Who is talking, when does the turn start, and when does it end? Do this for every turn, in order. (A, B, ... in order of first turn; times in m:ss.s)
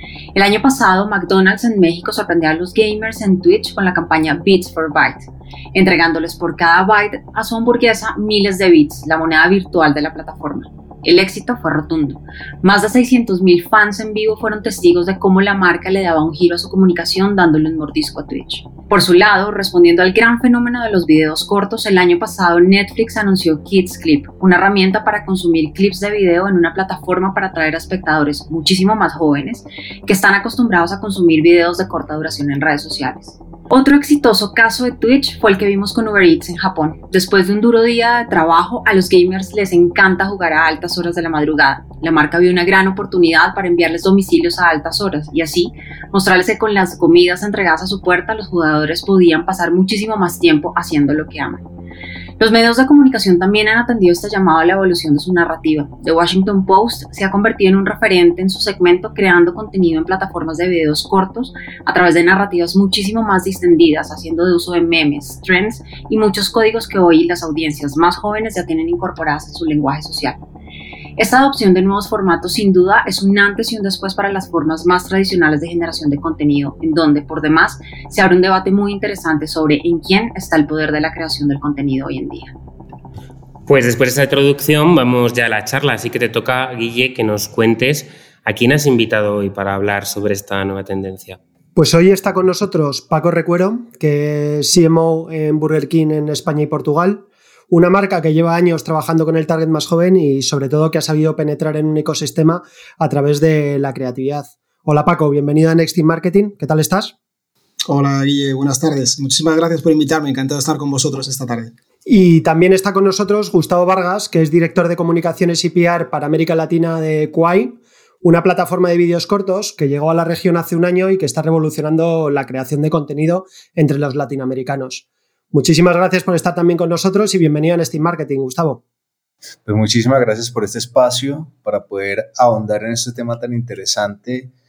0:00.3-0:51.6 A
0:52.4-1:10.4 A
1:11.2-1:22.5 A
1:23.7-1:31.4 B
1:31.8-1:47.1 C
1:47.9-1:51.7 D
1:52.1-2:08.8 C
2:09.6-2:14.5 E